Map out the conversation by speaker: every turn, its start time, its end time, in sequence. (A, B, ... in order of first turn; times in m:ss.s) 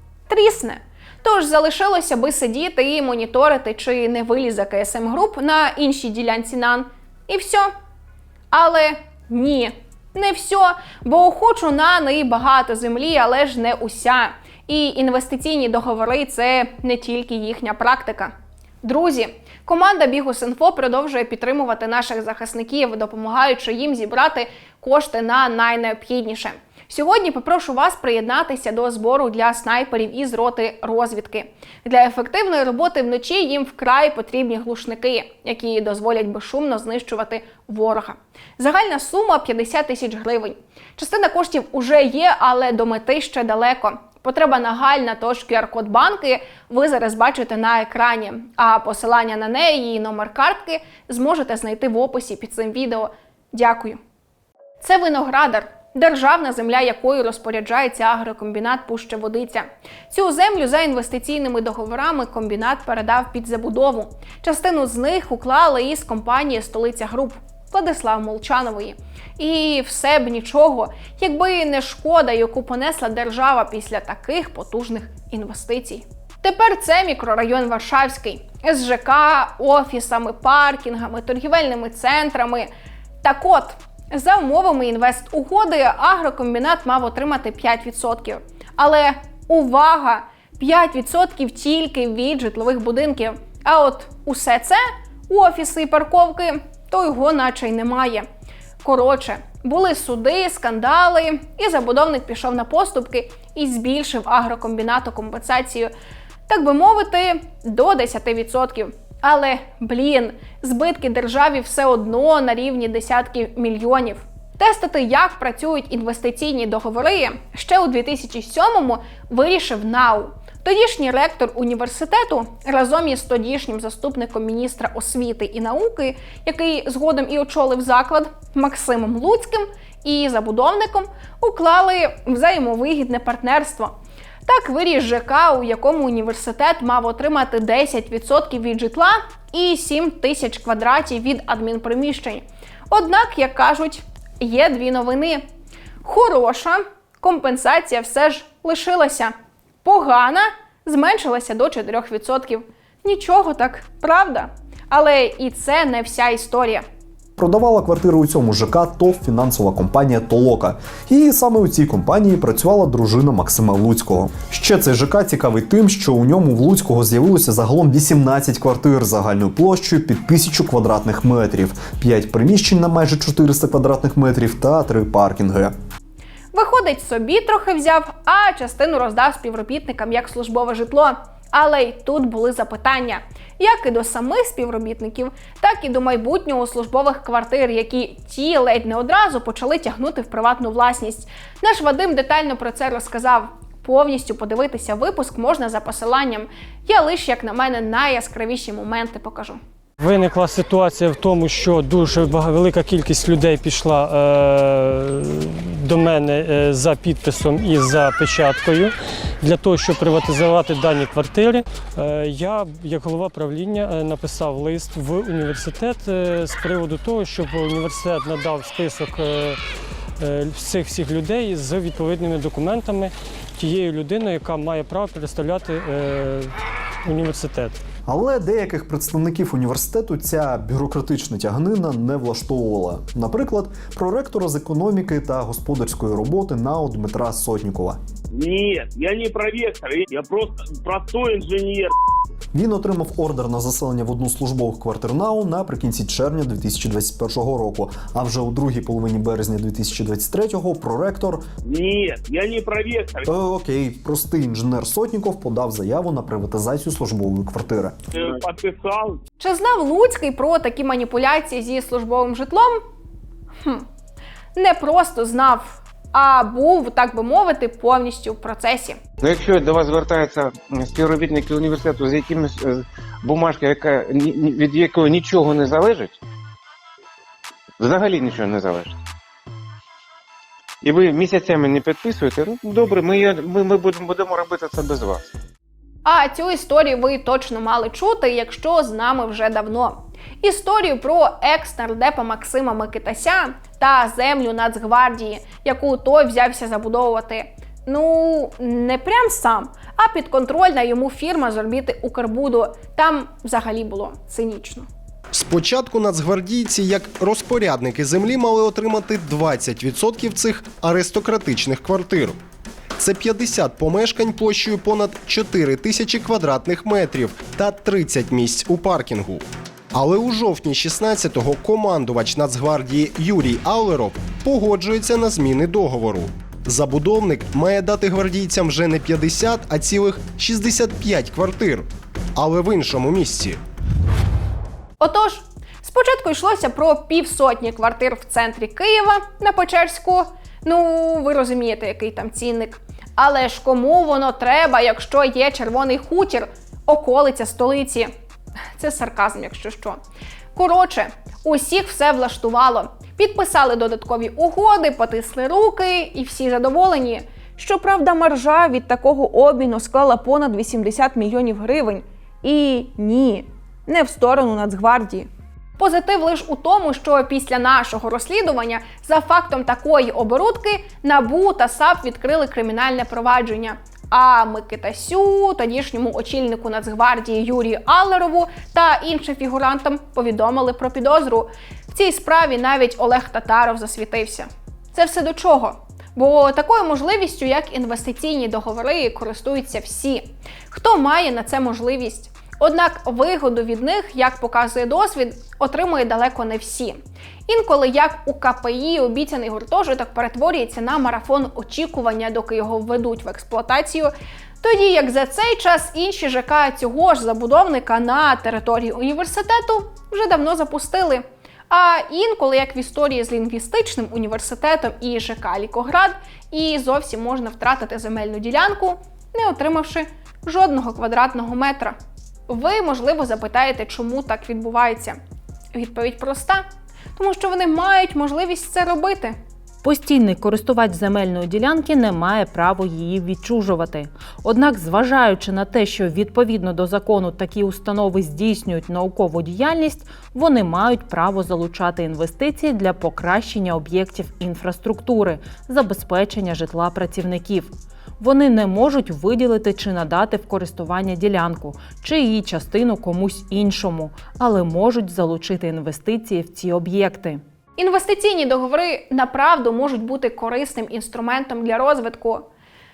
0:00.3-0:07.7 A
0:08.5-0:54.0 A
0:54.8-1:22.7 A
1:23.2-1:38.2 A
1:38.8-1:45.9 A
1:46.5-2:13.9 A
2:14.4-2:25.4 A
2:26.0-2:36.8 A
2:37.4-2:55.7 B
2:56.5-3:19.6 A
3:20.0-3:39.6 C
3:40.2-3:47.8 C
3:48.0-3:58.0 B
3:58.3-4:01.9 D
4:02.5-4:11.4 B
4:11.7-4:13.2 D
4:13.2-4:17.9 B
4:18.1-4:19.2 D
4:19.4-4:22.8 A
4:24.5-4:29.0 A
4:29.2-4:36.2 E
4:37.8-4:39.0 E
4:40.8-4:45.3 E
4:46.0-5:04.9 A
5:05.3-5:12.4 F
5:13.0-5:19.4 F
5:19.9-5:33.6 F
5:35.0-5:48.1 A
5:48.8-5:50.0 A
5:50.5-7:02.0 A
7:02.5-7:05.2 A
7:05.7-7:06.6 A
7:07.2-7:09.4 A
7:09.8-7:37.4 G
7:37.8-7:42.5 A